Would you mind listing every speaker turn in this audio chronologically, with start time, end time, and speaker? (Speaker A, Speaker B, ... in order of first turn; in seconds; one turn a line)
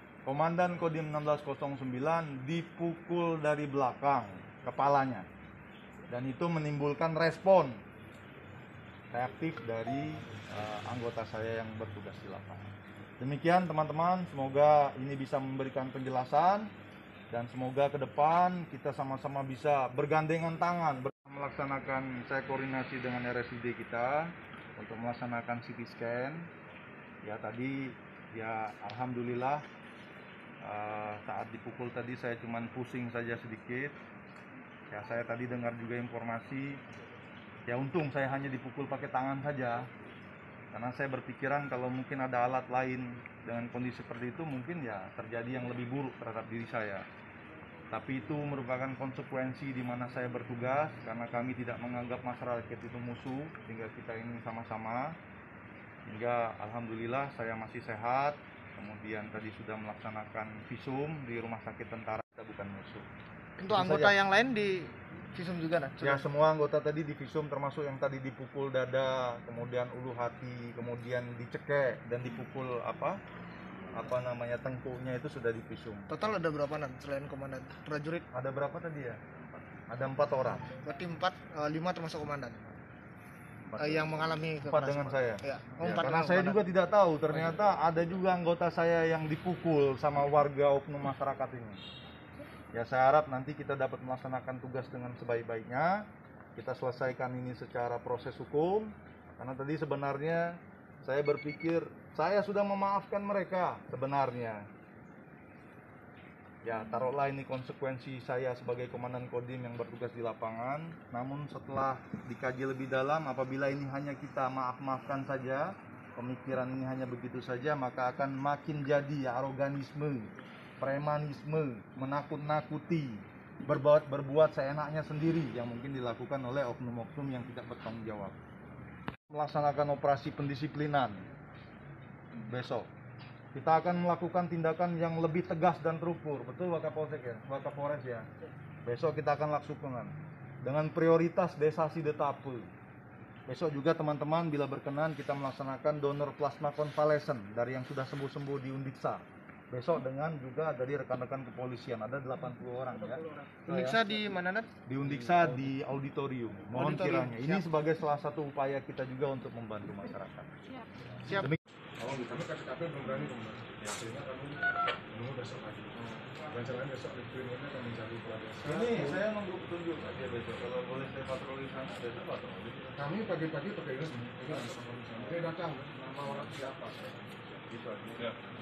Speaker A: 0.2-5.3
Speaker A: 6.1-7.8
Speaker A: 9.1-16.7
Speaker A: 17.3-26.5
Speaker A: 27.2-29.6
Speaker A: 30.6-34.0
Speaker A: 34.9-36.8
Speaker A: 37.7-39.9
Speaker A: 40.7-47.0
Speaker A: 47.9-55.1
Speaker A: 56.1-63.1
Speaker B: 63.6-66.2
Speaker A: 63.7-64.2
Speaker A: 66.0-73.2
Speaker A: 73.9-76.1
Speaker B: 76.1-78.3
Speaker A: 78.3-80.7
Speaker B: 80.8-82.8
Speaker A: 83.7-91.8
Speaker B: 83.8-86.6
Speaker A: 92.7-96.0
Speaker A: 96.6-104.6
Speaker A: 106.6-128.4
Speaker A: 129.3-131.3
Speaker A: 132.4-132.9
Speaker A: 133.5-138.3
Speaker A: 138.8-142.7
Speaker A: 143.5-154.1
Speaker B: 153.1-154.7
Speaker A: 154.9-160.5
Speaker B: 156.7-157.6
Speaker A: 161.3-161.6
Speaker C: 162.0-169.2
Speaker A: 166.0-166.4
Speaker A: 168.6-173.3
Speaker C: 173.0-177.3
Speaker A: 177.7-178.2